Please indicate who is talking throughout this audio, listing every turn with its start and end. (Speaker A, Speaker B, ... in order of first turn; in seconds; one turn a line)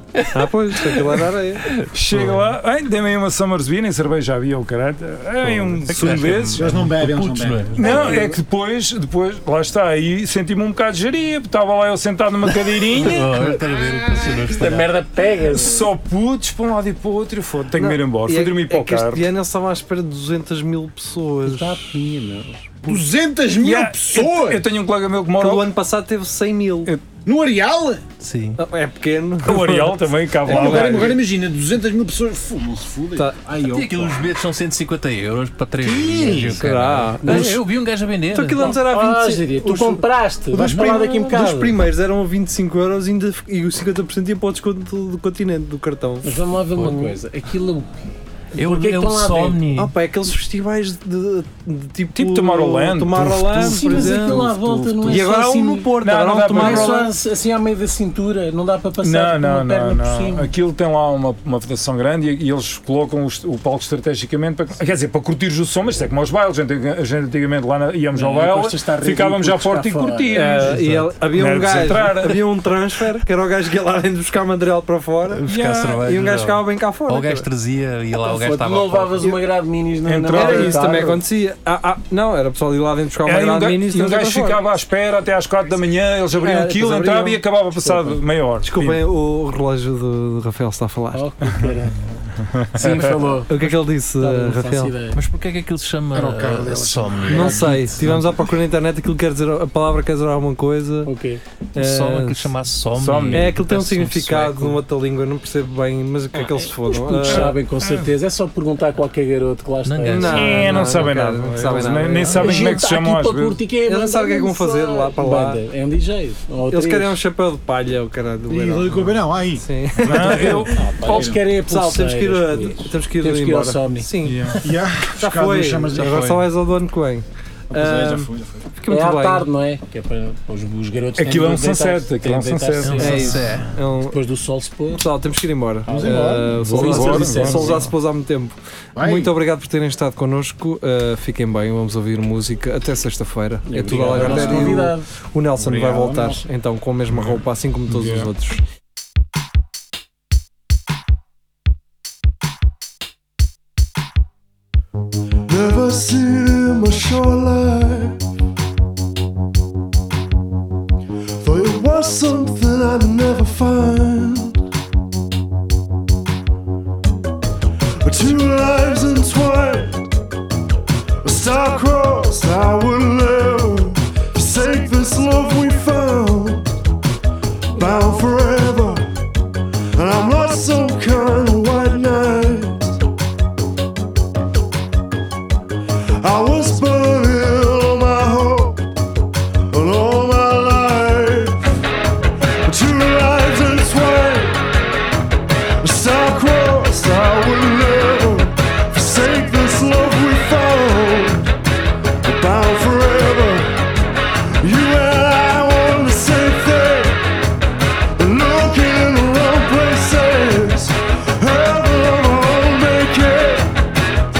Speaker A: 0.3-1.6
Speaker B: 1.6-2.5
Speaker C: 1.9-6.7
Speaker B: 5.4-8.2
Speaker D: 6.4-8.2
Speaker C: 7.8-13.4
Speaker A: 7.8-8.3
Speaker B: 12.9-14.9
Speaker E: 14.4-15.9
Speaker C: 15.5-19.3
Speaker A: 17.8-21.9
Speaker E: 21.4-22.8
Speaker D: 22.8-24.7
Speaker C: 23.6-25.7
Speaker A: 25.4-26.9
Speaker D: 27.2-28.0
Speaker B: 28.2-28.6
Speaker A: 28.6-31.2
Speaker C: 29.4-31.2
Speaker D: 30.4-34.3
Speaker B: 33.7-38.8
Speaker D: 35.8-36.6
Speaker A: 36.5-37.6
Speaker E: 37.2-37.6
Speaker A: 38.3-47.1
Speaker E: 38.6-41.8
Speaker E: 46.2-49.6
Speaker B: 48.5-49.9
Speaker A: 49.7-57.1
Speaker C: 52.1-55.3
Speaker E: 53.6-60.5
Speaker C: 56.0-57.1
Speaker C: 59.0-72.4
Speaker E: 68.1-71.1
Speaker A: 70.3-77.5
Speaker B: 75.3-79.3
Speaker C: 75.5-76.0
Speaker E: 78.2-81.2
Speaker C: 80.0-80.9
Speaker A: 80.3-84.6
Speaker C: 83.2-89.0
Speaker A: 86.4-87.4
Speaker E: 87.8-88.2
Speaker A: 88.6-91.2
Speaker E: 91.1-92.1
Speaker C: 91.5-91.7
Speaker C: 92.4-93.3
Speaker E: 92.8-95.2
Speaker A: 93.5-94.9
Speaker B: 95.1-98.3
Speaker D: 96.1-97.7
Speaker A: 97.3-101.1
Speaker E: 97.6-98.0
Speaker E: 101.0-101.4
Speaker A: 101.7-102.5
Speaker B: 101.8-104.8
Speaker C: 102.9-103.5
Speaker A: 103.3-107.5
Speaker E: 106.4-110.8
Speaker C: 107.2-108.1
Speaker B: 109.8-111.1
Speaker A: 110.0-112.8
Speaker C: 110.2-113.6
Speaker E: 112.2-117.2
Speaker A: 113.8-115.6
Speaker A: 116.7-129.4
Speaker D: 118.5-121.5
Speaker C: 120.0-120.9
Speaker E: 120.7-124.1
Speaker C: 124.2-124.7
Speaker D: 124.6-126.4
Speaker B: 126.0-126.3
Speaker D: 127.7-128.7
Speaker E: 128.9-135.0
Speaker C: 131.2-133.3
Speaker B: 132.8-133.7
Speaker A: 133.0-134.2
Speaker A: 134.9-148.6
Speaker D: 135.9-136.7
Speaker E: 135.9-137.9
Speaker C: 136.7-137.9
Speaker D: 138.9-139.3
Speaker E: 143.7-145.1
Speaker D: 144.2-144.8
Speaker D: 145.5-146.4
Speaker C: 147.1-148.3
Speaker F: 155.4-158.2
Speaker F: 161.4-164.6
Speaker F: 168.0-170.1
Speaker F: 171.2-176.8
Speaker F: 177.7-179.2
Speaker F: 179.9-183.0
Speaker F: 186.2-188.8
Speaker F: 189.7-191.8
Speaker F: 192.6-194.6
Speaker F: 195.8-201.5
Speaker F: 202.2-203.8
Speaker F: 204.6-207.2
Speaker F: 208.2-213.7